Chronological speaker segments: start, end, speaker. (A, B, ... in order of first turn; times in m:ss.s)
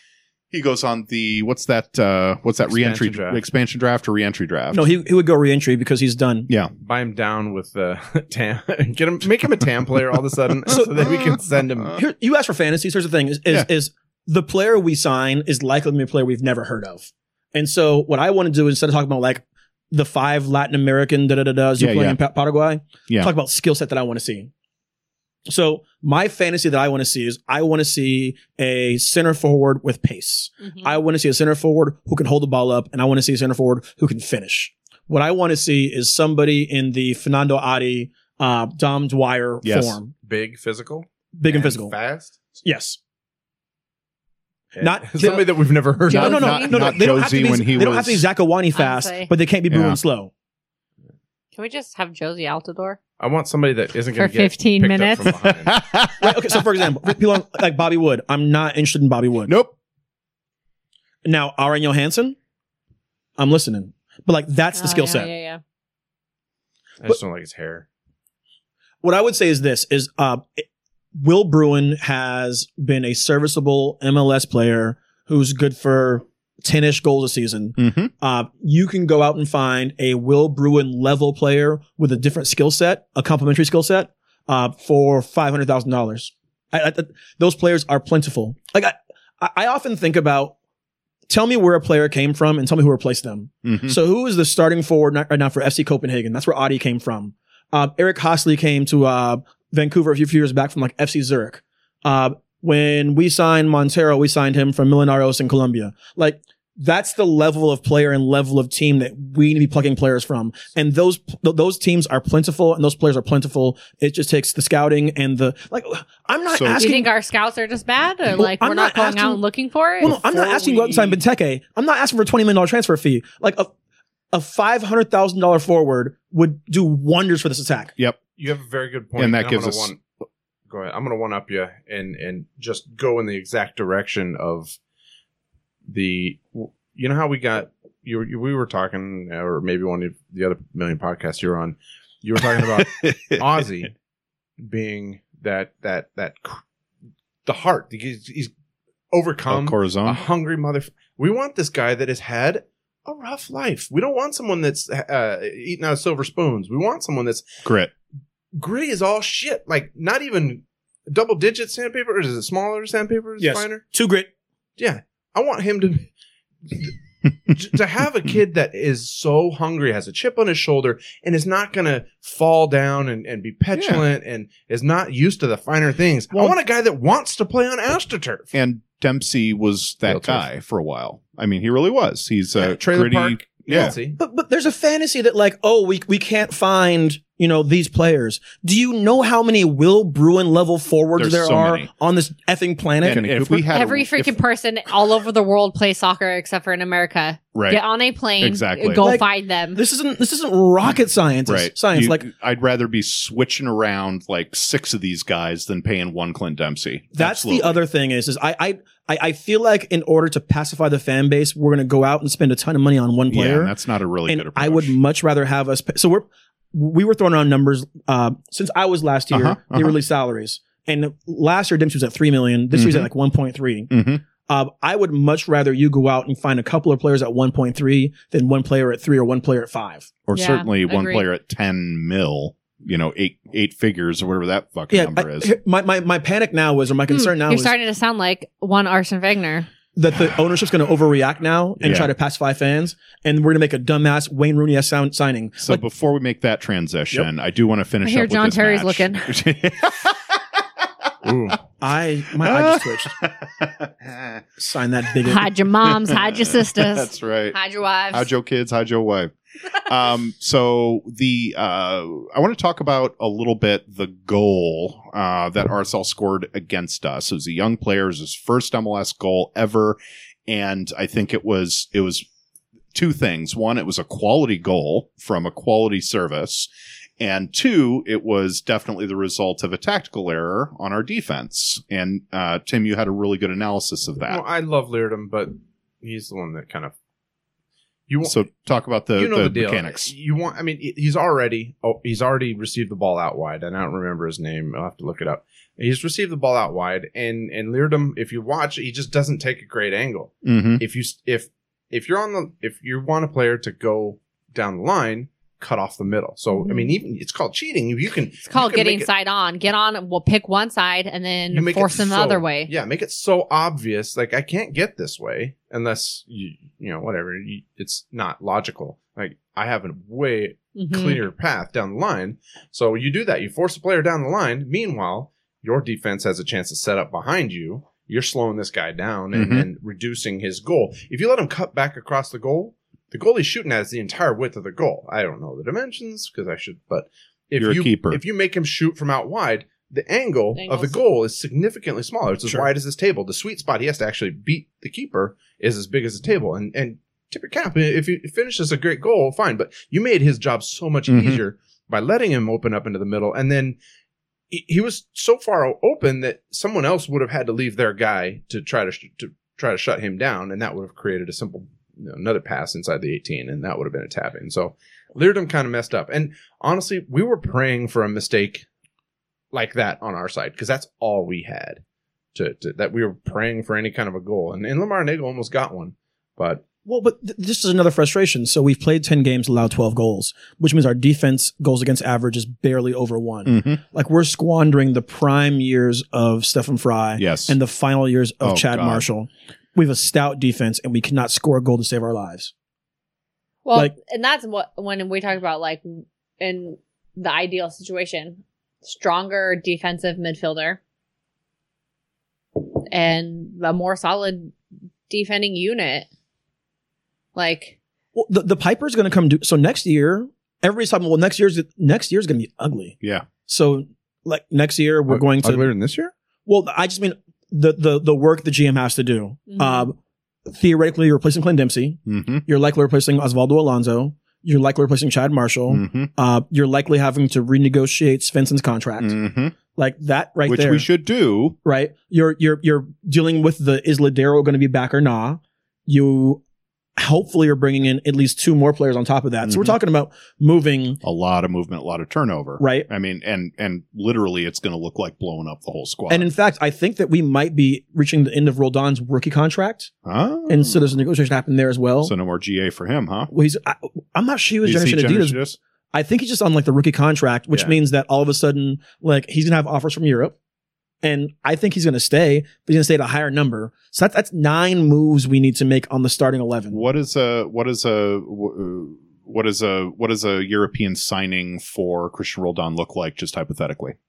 0:00.5-0:04.8 A
0:02.7-0:03.4 B
0:04.7-0:06.5 C
0:06.8-0:12.0 B
0:10.7-0:11.3 C
0:11.9-0:24.5 C
0:21.8-0:22.2 A
0:25.5-0:40.1 C
0:30.7-0:30.9 D
0:39.6-0:40.0 A
0:40.2-0:42.4 B
0:41.4-0:41.9 C
0:42.6-0:43.0 C
0:44.7-0:46.7 B
0:44.8-0:50.3 C
0:46.1-0:46.9 D
0:46.1-0:48.3 A
0:48.7-0:49.3 D
0:49.7-0:50.0 A
0:51.5-0:53.0 D
0:53.2-0:55.8 B
0:54.1-0:55.5 D
0:55.6-0:56.3 A
0:56.2-0:59.5 C
0:59.5-0:59.7 A
1:01.2-1:02.4 C
1:03.4-1:05.3 C
1:04.7-1:05.6 D
1:07.0-1:07.8 B
1:09.0-1:30.5 C
1:17.8-1:18.1 A
1:31.3-1:57.1 C
1:33.6-1:34.0 A
1:56.5-1:56.8 A
1:56.8-2:00.1 D
1:58.3-1:59.4 C
2:00.0-2:03.7 C
2:00.0-2:01.2 B
2:04.3-2:07.9 C
2:08.4-2:10.0 B
2:09.2-2:09.9 A
2:10.7-2:14.8 B
2:15.9-2:23.9 B
2:22.8-2:23.4 A
2:24.6-2:26.6 B
2:27.4-2:28.5 B
2:29.1-2:37.5 B
2:29.5-2:30.2 A
2:37.6-2:37.9 A
2:38.5-2:43.8 B
2:43.4-2:44.3 C
2:44.8-2:46.1 B
2:46.7-2:46.9 B
2:47.5-2:58.5 B
2:53.7-2:54.0 A
2:58.5-3:03.9 A
3:00.1-3:00.4 B
3:02.6-3:04.2 B
3:03.8-3:13.3 C
3:11.2-3:11.9 A
3:13.0-3:14.4 A
3:13.1-3:13.4 B
3:13.7-3:19.8 D
3:17.5-3:17.8 A
3:18.4-3:19.0 A
3:19.0-3:22.2 C
3:21.4-3:27.8 A
3:27.1-3:33.7 C
3:33.3-3:35.0 A
3:34.3-3:50.1 C
3:39.3-3:40.0 A
3:42.7-3:43.1 A
3:43.9-3:44.2 A
3:50.3-3:55.5 A
3:50.3-3:51.2 D
3:54.9-3:57.7 C
3:57.1-3:59.7 D
3:59.9-4:05.8 C
4:01.8-4:02.1 A
4:05.6-4:10.2 A
4:08.0-4:09.3 D
4:11.2-4:11.6 B
4:11.8-4:13.1 C
4:12.4-4:14.4 A
4:14.6-4:15.5 C
4:15.2-4:18.3 D
4:15.8-4:17.6 A
4:18.1-4:32.2 A
4:32.9-4:36.7 A
4:37.2-4:44.4 A
4:44.2-4:46.9 B
4:48.1-4:48.4 B
4:48.2-4:50.1 A
4:49.1-5:09.1 B
5:00.4-5:00.8 A
5:06.6-5:06.9 D
5:08.5-5:12.7 D
5:11.5-5:53.8 B
5:20.8-5:21.2 D
5:29.3-5:29.6 A
5:37.6-5:38.2 A
5:40.5-5:41.0 D
5:51.1-5:51.4 A
5:54.5-6:08.6 B
6:09.5-6:11.8 B
6:12.3-6:16.6 B
6:16.8-6:32.5 C
6:23.4-6:23.8 A
6:27.2-6:27.6 A
6:28.4-6:29.0 A
6:33.6-6:40.8 D
6:42.6-6:44.5 D
6:45.1-6:46.1 D
6:47.3-6:47.8 D
6:48.1-6:55.7 C
6:53.0-6:53.2 A
6:55.1-6:56.1 B
6:56.4-7:09.2 C
6:59.5-6:59.9 D
7:02.1-7:02.4 A
7:05.7-7:06.1 A
7:09.0-7:09.5 A
7:09.7-7:10.9 C
7:10.4-7:11.6 A
7:11.6-7:16.4 C
7:17.0-7:21.0 C
7:19.4-7:19.7 A
7:21.0-7:26.3 A
7:22.6-7:22.9 C
7:26.1-7:29.9 C
7:30.0-7:30.9 A
7:30.5-7:32.1 C
7:32.0-7:33.3 A
7:33.3-7:35.4 C
7:34.6-7:35.6 A
7:35.9-7:40.3 C
7:37.5-7:37.8 B
7:41.0-7:46.8 C
7:46.7-7:53.9 A